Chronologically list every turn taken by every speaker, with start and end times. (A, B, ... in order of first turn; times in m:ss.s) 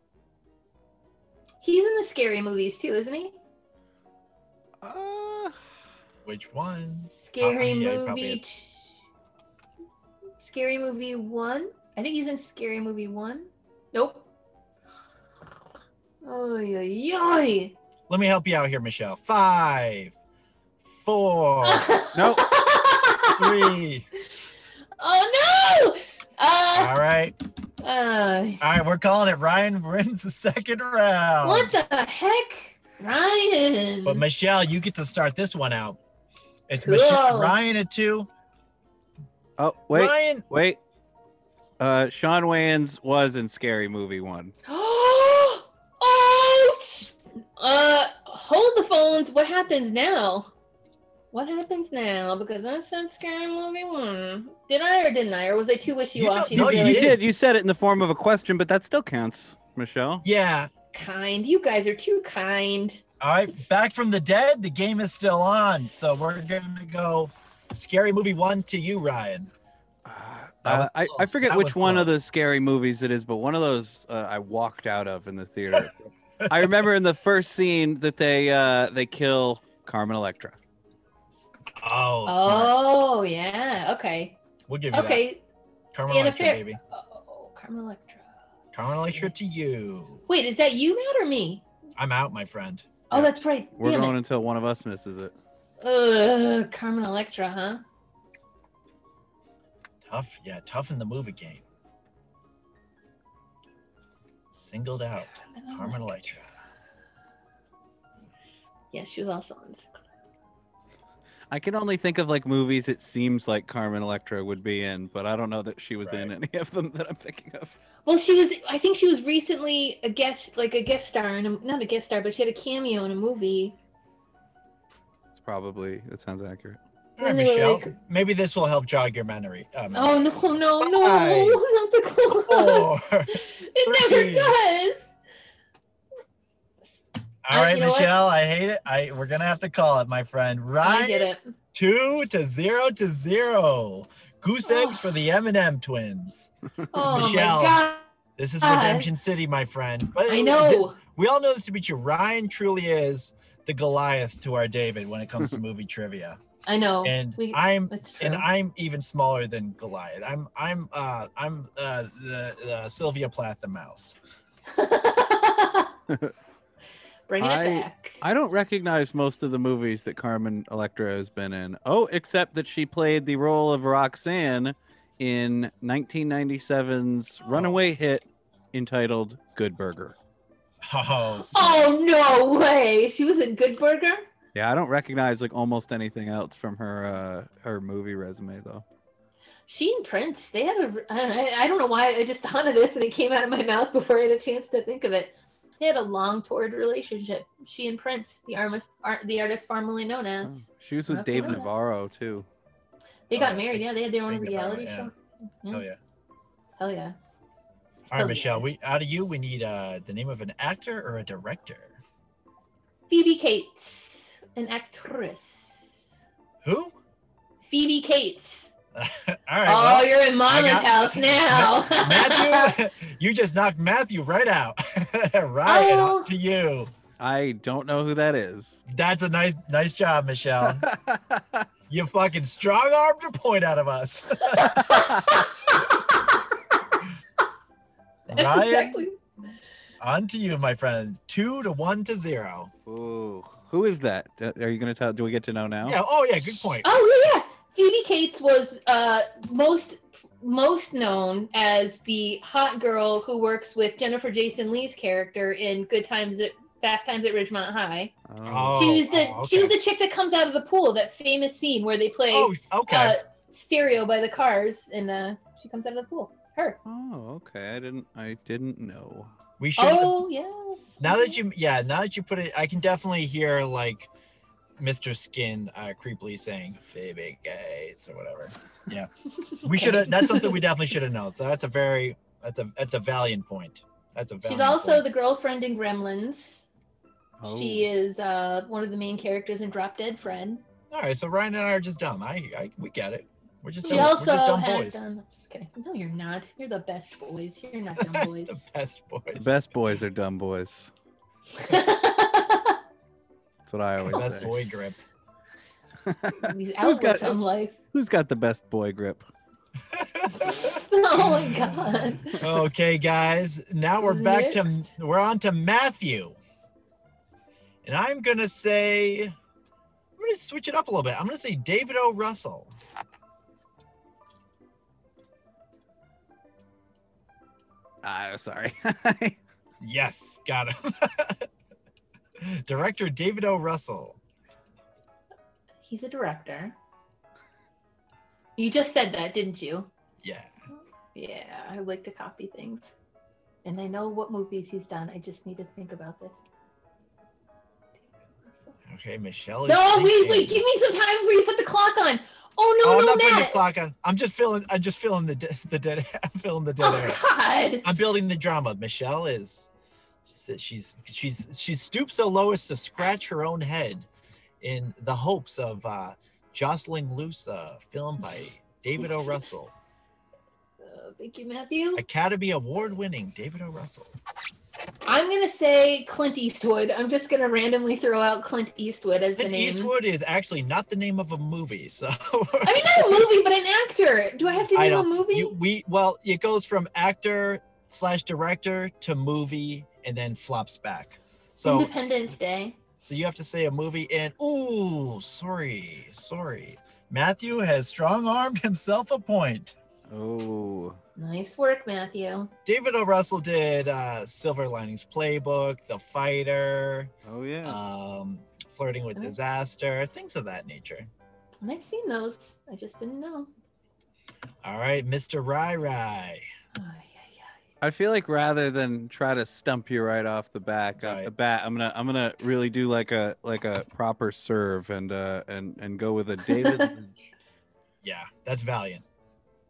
0:01.6-0:03.4 A
0:04.8-0:05.6 B
0:06.2-0:08.5 C
0:07.1-0:09.0 A
0:10.4-0:14.3 A
0:16.2-0:17.8 A
0:18.1-0:20.2 C
0:20.8-0:21.9 C
0:21.6-0:23.7 A
0:22.1-0:22.5 B
0:23.4-0:24.0 C
0:25.0-0:27.0 A
0:26.7-0:27.4 C
0:27.8-0:28.6 A
0:28.6-0:31.7 C
0:31.4-0:34.2 A
0:34.0-0:36.0 C
0:36.7-0:38.3 C
0:36.8-0:37.6 A
0:39.6-0:40.8 B
0:39.9-0:40.5 C
0:41.8-0:44.5 B
0:44.6-0:50.5 A
0:51.3-0:57.1 A
0:56.1-0:57.2 C
0:56.5-1:00.2 B
1:00.2-1:00.7 C
1:00.9-1:03.0 A
1:03.2-1:09.5 C
1:10.0-1:20.6 B
1:10.6-1:12.2 C
1:16.4-1:16.8 C
1:21.8-1:22.8 C
1:22.2-1:24.4 A
1:24.7-1:25.2 C
1:24.9-1:25.4 A
1:25.9-1:26.8 C
1:26.1-1:28.3 A
1:28.7-1:30.2 C
1:30.3-1:31.6 A
1:32.0-1:33.1 C
1:33.1-1:34.2 A
1:33.1-1:35.3 B
1:35.8-1:37.8 A
1:40.0-1:41.6 C
1:44.5-1:46.5 C
1:45.3-1:46.2 A
1:48.9-1:49.9 A
1:51.5-1:57.8 B
1:56.0-1:56.3 C
1:58.0-2:03.8 A
2:05.3-2:06.8 B
2:07.2-2:10.2 C
2:07.2-2:07.9 A
2:09.9-2:15.1 A
2:10.8-2:11.6 C
2:12.5-2:14.6 C
2:17.4-2:27.8 C
2:17.5-2:18.2 A
2:20.8-2:21.5 A
2:24.6-2:25.1 A
2:26.9-2:28.1 A
2:28.4-2:36.4 C
2:28.6-2:29.1 A
2:30.3-2:31.0 A
2:36.6-2:38.5 A
2:37.0-2:44.2 C
2:44.7-2:45.9 A
2:46.1-2:46.3 B
2:47.3-2:48.2 A
2:47.4-3:00.2 B
2:57.4-2:57.8 C
3:00.8-3:01.9 C
3:01.4-3:04.2 A
3:04.5-3:08.8 B
3:09.7-3:21.7 A
3:20.4-3:22.5 B
3:23.3-3:25.8 A
3:23.3-3:25.1 C
3:25.7-3:26.0 C
3:26.8-3:27.2 A
3:28.1-3:32.0 C
3:28.1-3:28.6 A
3:33.1-3:35.8 A
3:36.6-3:36.9 C
3:37.6-3:38.7 A
3:38.9-3:46.9 C
3:39.6-3:42.8 A
3:45.6-3:46.3 A
3:47.2-3:48.8 B
3:48.9-3:50.8 C
3:50.6-3:51.6 B
3:51.9-3:54.8 C
3:54.5-3:56.3 A
3:54.8-3:55.4 B
3:58.3-3:59.0 C
3:58.3-3:59.2 A
4:00.0-4:02.7 C
4:02.8-4:06.0 B
4:05.8-4:06.9 C
4:06.8-4:18.1 A
4:18.3-4:19.0 B
4:18.4-4:19.8 C
4:18.8-4:26.8 A
4:22.3-4:23.2 C
4:26.8-4:29.3 B
4:29.6-4:30.2 C
4:29.8-4:31.4 A
4:31.0-4:34.1 C
4:34.8-4:39.1 C
4:39.5-4:40.6 A
4:39.6-4:45.0 C
4:44.4-4:46.6 A
4:47.4-4:47.9 B
4:47.4-4:50.6 A
4:50.9-4:55.0 C
4:53.8-4:58.6 A
4:58.0-4:59.5 C
4:59.3-5:00.9 B
5:01.6-5:02.8 A
5:03.6-5:04.5 B
5:04.0-5:05.0 C
5:06.0-5:07.4 B
5:06.4-5:07.8 A
5:07.9-5:09.2 B
5:09.9-5:11.6 C
5:10.6-5:12.4 A
5:12.4-5:16.4 C
5:14.0-5:14.8 A
5:17.8-5:19.3 C
5:20.2-5:22.7 C
5:28.0-5:29.4 B
5:29.8-5:31.5 C
5:32.4-5:34.2 C
5:35.8-5:36.8 A
5:38.6-5:39.9 A
5:40.2-5:40.5 C
5:41.1-5:42.9 A
5:43.6-5:46.4 A
5:48.9-5:50.6 C
5:49.7-5:53.6 A
5:52.8-5:57.2 C
5:56.8-5:57.8 A
5:57.8-5:59.7 C
6:00.2-6:04.1 C
6:04.6-6:09.7 C
6:10.8-6:12.0 A
6:12.0-6:14.1 C
6:15.0-6:19.9 A
6:19.4-6:23.3 C
6:22.6-6:25.6 A
6:24.7-6:32.1 C
6:31.6-6:32.8 A
6:33.0-6:39.8 C
6:40.1-6:41.0 B
6:41.2-6:42.5 A
6:42.6-6:47.1 C
6:47.2-6:47.8 B
6:47.6-6:51.1 C
6:51.6-6:53.5 A
6:54.6-6:56.4 C
6:56.8-6:57.5 A
6:57.8-7:07.3 B
7:01.0-7:01.3 C
7:06.5-7:06.9 A
7:08.0-7:09.0 C